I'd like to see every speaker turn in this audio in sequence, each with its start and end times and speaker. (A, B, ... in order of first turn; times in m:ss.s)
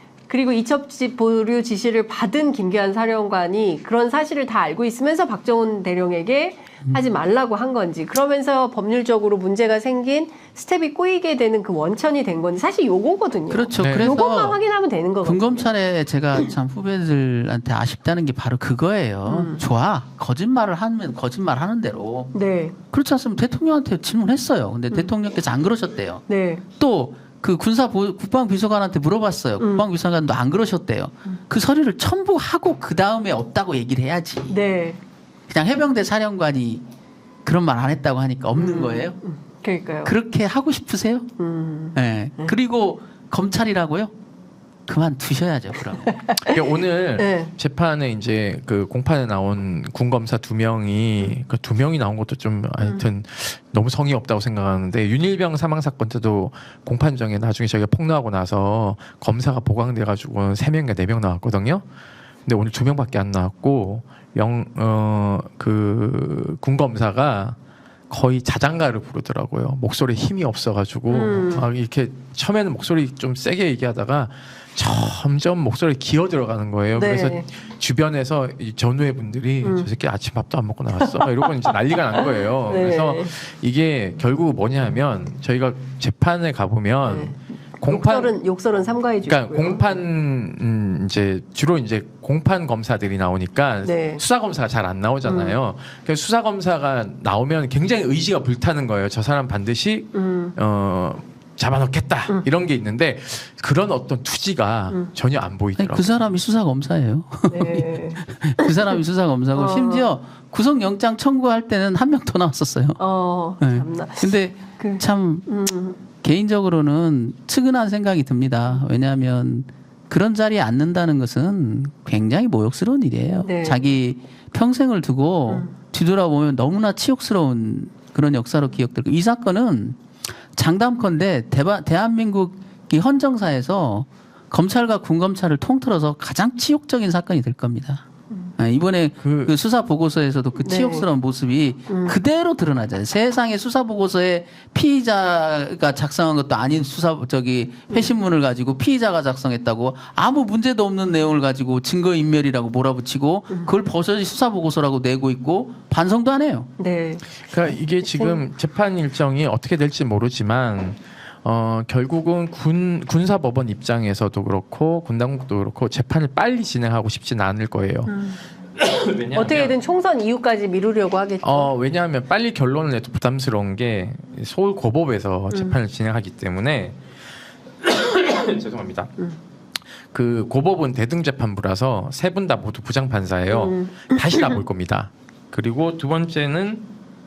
0:00.3-0:15.7 A
0:13.5-0:14.6 B
0:13.8-0:14.1 C
0:15.2-0:22.3 B
0:19.2-0:19.6 A
0:22.3-0:22.8 A
0:22.9-0:26.2 B
0:26.3-0:26.6 A
0:26.8-0:34.6 B
0:29.6-0:29.8 A
0:34.5-0:35.0 A
0:35.5-0:36.8 B
0:37.4-0:39.2 B
0:38.5-0:40.1 A
0:40.0-0:41.3 B
0:41.4-0:42.6 A
0:41.9-0:44.1 B
0:44.9-0:46.1 B
0:46.1-0:46.6 A
0:46.5-1:01.8 C
0:47.2-0:47.5 A
1:02.4-1:07.6 C
1:08.1-1:28.3 C
1:11.1-1:11.6 A
1:17.0-1:17.4 A
1:19.6-1:19.9 A
1:21.1-1:23.3 A
1:27.0-1:30.0 A
1:29.2-1:46.3 C
1:33.8-1:34.2 A
1:35.2-1:35.6 A
1:40.1-1:40.5 A
1:45.8-1:53.0 B
1:47.5-1:48.9 A
1:49.5-1:50.1 A
1:53.0-1:56.0 A
1:53.6-1:55.5 B
1:56.2-2:10.0 B
2:03.4-2:03.9 A
2:10.5-2:18.0 B
2:18.6-2:36.7 B
2:19.2-2:19.5 C
2:20.6-2:21.1 A
2:21.9-2:22.2 A
2:36.8-2:37.2 A
2:37.5-2:48.2 C
2:38.0-2:38.4 A
2:48.1-2:48.4 A
2:48.8-2:49.7 C
2:49.3-2:51.7 A
2:51.4-2:57.0 C
2:57.8-2:59.1 C
3:00.1-3:06.8 C
3:03.5-3:04.6 A